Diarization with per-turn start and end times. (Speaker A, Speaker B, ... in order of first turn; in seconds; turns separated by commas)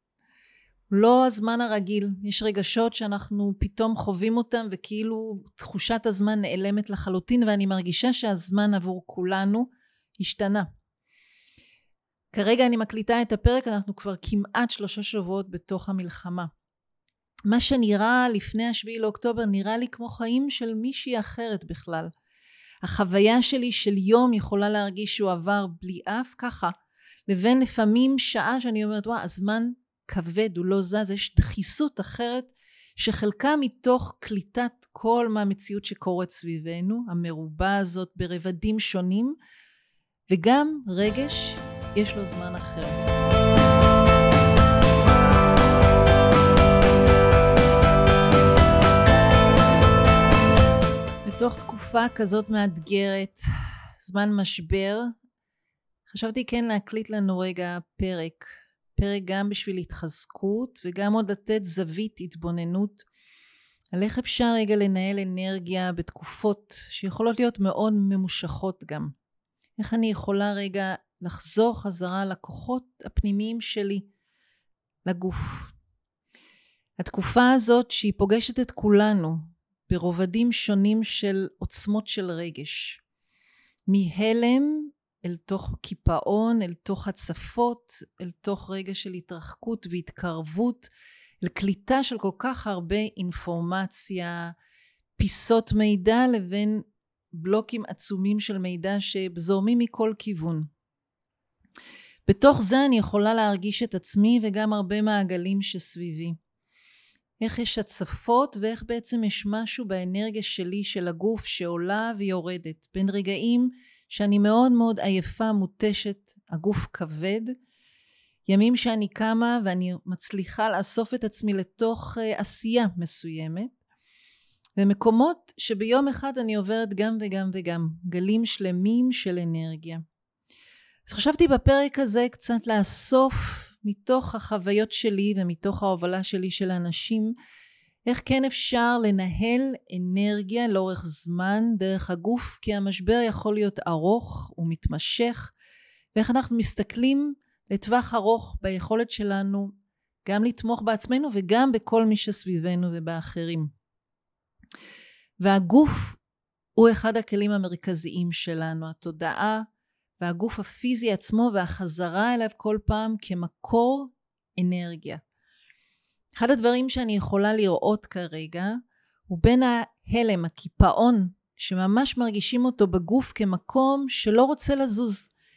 Speaker A: 0.9-10.7, Speaker A: 12.3-16.5, Speaker A: 17.5-22.1, Speaker A: 22.8-26.7, Speaker A: 27.3-39.4, Speaker A: 40.3-43.0, Speaker A: 51.2-53.5, Speaker A: 54.0-55.1, Speaker A: 56.1-63.1, Speaker A: 63.9-69.1, Speaker A: 69.8-74.1, Speaker A: 75.1-75.7, Speaker A: 77.0-83.0, Speaker A: 83.9-90.9, Speaker A: 91.4-94.5, Speaker A: 95.2-100.7, Speaker A: 102.3-106.4, Speaker A: 107.4-117.5, Speaker A: 118.5-123.7, Speaker A: 124.8-130.0, Speaker A: 131.1-137.3, Speaker A: 138.1-145.5, Speaker A: 146.2-149.7, Speaker A: 150.2-153.7, Speaker A: 155.4-156.2, Speaker A: 156.8-159.7, Speaker A: 160.2-165.2, Speaker A: 166.3-168.8, Speaker A: 169.3-175.3